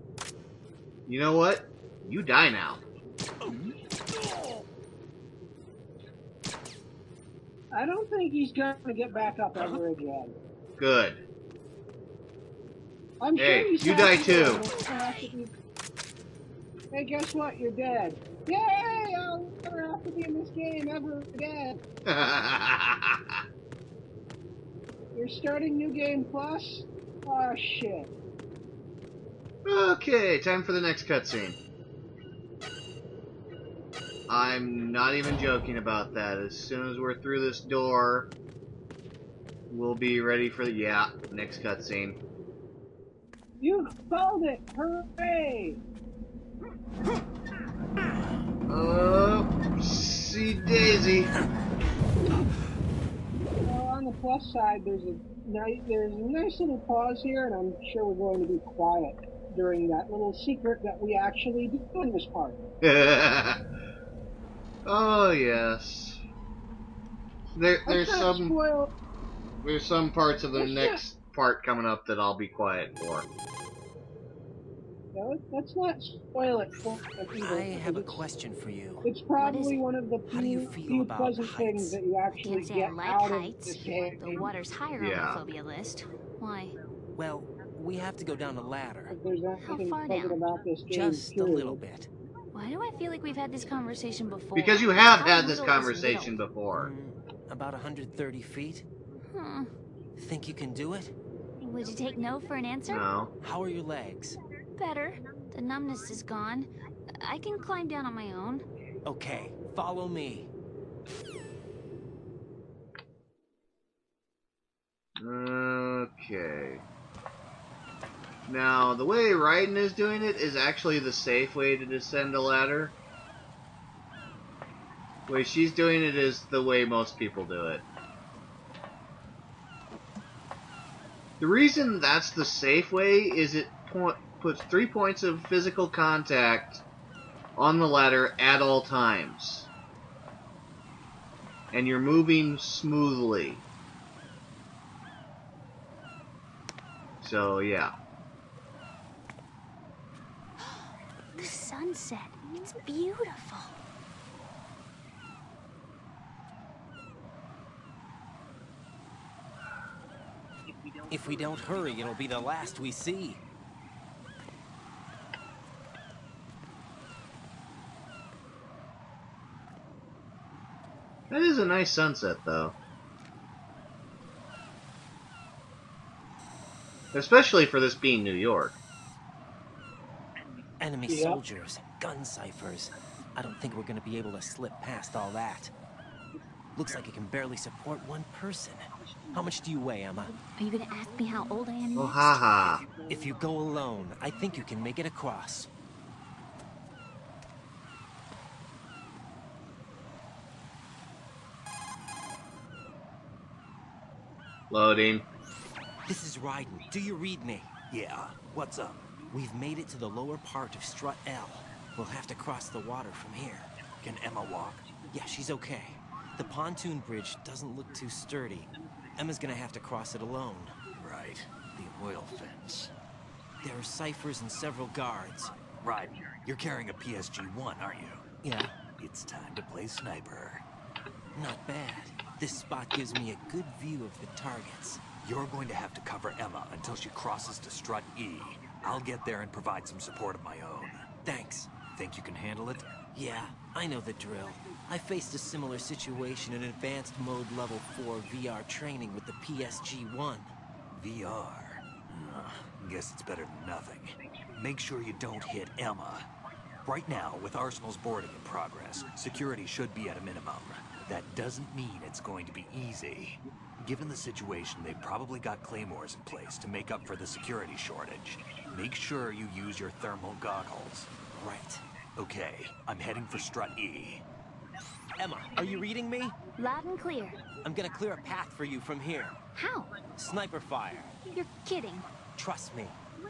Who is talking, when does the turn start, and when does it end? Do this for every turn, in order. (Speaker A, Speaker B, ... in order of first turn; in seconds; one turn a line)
Speaker A: 1.1-2.8
Speaker B: 7.7-10.4
Speaker A: 10.8-11.2
Speaker B: 13.2-15.5
Speaker A: 13.4-14.7
Speaker B: 16.9-21.8
Speaker A: 22.1-23.4
Speaker B: 25.1-28.1
Speaker A: 29.6-31.6
Speaker A: 34.3-38.3
Speaker A: 39.7-42.2
Speaker B: 43.6-45.8
Speaker A: 48.7-51.3
Speaker B: 53.6-62.6
Speaker A: 62.8-63.6
Speaker A: 64.8-66.2
Speaker A: 67.6-68.5
Speaker B: 67.9-68.9
Speaker A: 69.6-73.3
Speaker B: 70.6-71.0
Speaker B: 75.1-78.2
Speaker C: 77.4-79.1
Speaker B: 79.0-84.5
Speaker D: 79.4-79.8
Speaker C: 80.3-82.0
Speaker D: 82.3-86.8
Speaker A: 85.0-85.4
Speaker C: 87.2-89.2
Speaker B: 89.1-91.8
Speaker D: 89.6-90.4
Speaker C: 90.9-92.1
Speaker D: 92.5-96.4
Speaker A: 94.6-96.9
Speaker C: 96.7-98.8
Speaker D: 99.2-99.7
Speaker C: 100.2-101.1
Speaker D: 101.6-103.0
Speaker A: 102.9-103.3
Speaker C: 103.4-104.4
Speaker D: 104.8-108.7
Speaker C: 109.0-110.5
Speaker A: 115.2-116.8
Speaker A: 118.5-123.0
Speaker A: 125.3-127.8
Speaker A: 131.4-136.8
Speaker A: 137.6-139.7
Speaker A: 141.7-143.6
Speaker A: 147.2-147.9
Speaker D: 150.6-153.8
Speaker C: 161.1-163.4
Speaker A: 171.3-172.8
Speaker A: 177.1-178.8
Speaker C: 180.8-185.7
Speaker B: 181.1-181.4
Speaker C: 186.8-190.3
Speaker D: 190.6-192.5
Speaker A: 191.9-192.8
Speaker C: 193.1-195.7
Speaker A: 204.7-205.2
Speaker C: 206.1-207.7
Speaker E: 207.9-209.1
Speaker C: 209.3-213.7
Speaker E: 214.0-214.9
Speaker C: 215.1-220.8
Speaker E: 221.0-222.9
Speaker C: 223.6-225.6
Speaker E: 225.7-228.2
Speaker C: 228.4-228.8
Speaker E: 228.9-230.7
Speaker C: 231.3-235.0
Speaker E: 235.2-241.1
Speaker C: 241.2-241.7
Speaker E: 241.8-243.0
Speaker C: 243.1-250.5
Speaker E: 250.9-256.3
Speaker E: 256.9-271.1
Speaker C: 271.3-271.8
Speaker E: 272.2-274.2
Speaker C: 275.2-276.4
Speaker D: 276.6-277.4
Speaker C: 277.6-279.4
Speaker D: 279.6-280.0
Speaker C: 280.2-281.1
Speaker D: 281.2-282.1
Speaker C: 282.4-283.0